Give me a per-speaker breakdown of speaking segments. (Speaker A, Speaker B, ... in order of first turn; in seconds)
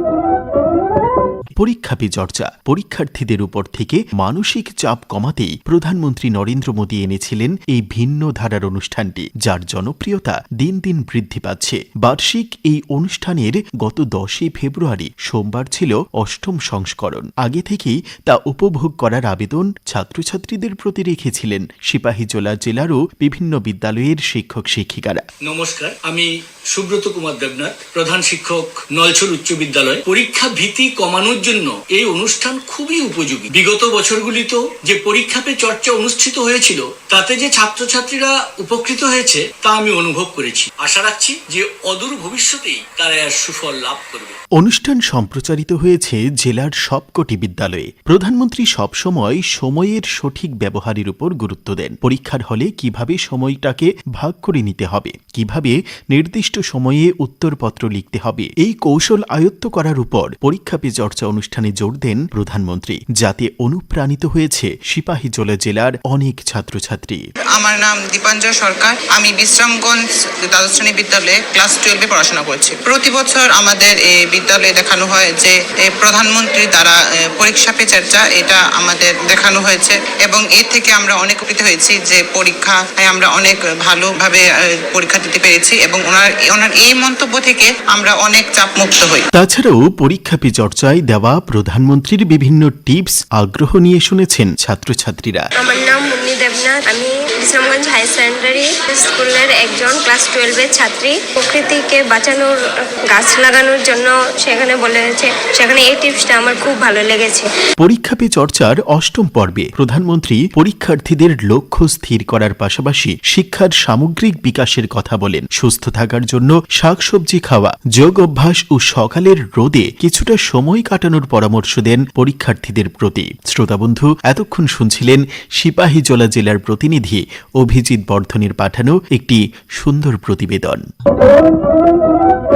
Speaker A: 1.6-25.2, 44.6-67.2, 89.3-95.5, 107.8-130.9
Speaker B: 25.5-44.4
Speaker C: 67.5-89.2
Speaker D: 95.6-102.5, 103.1-107.5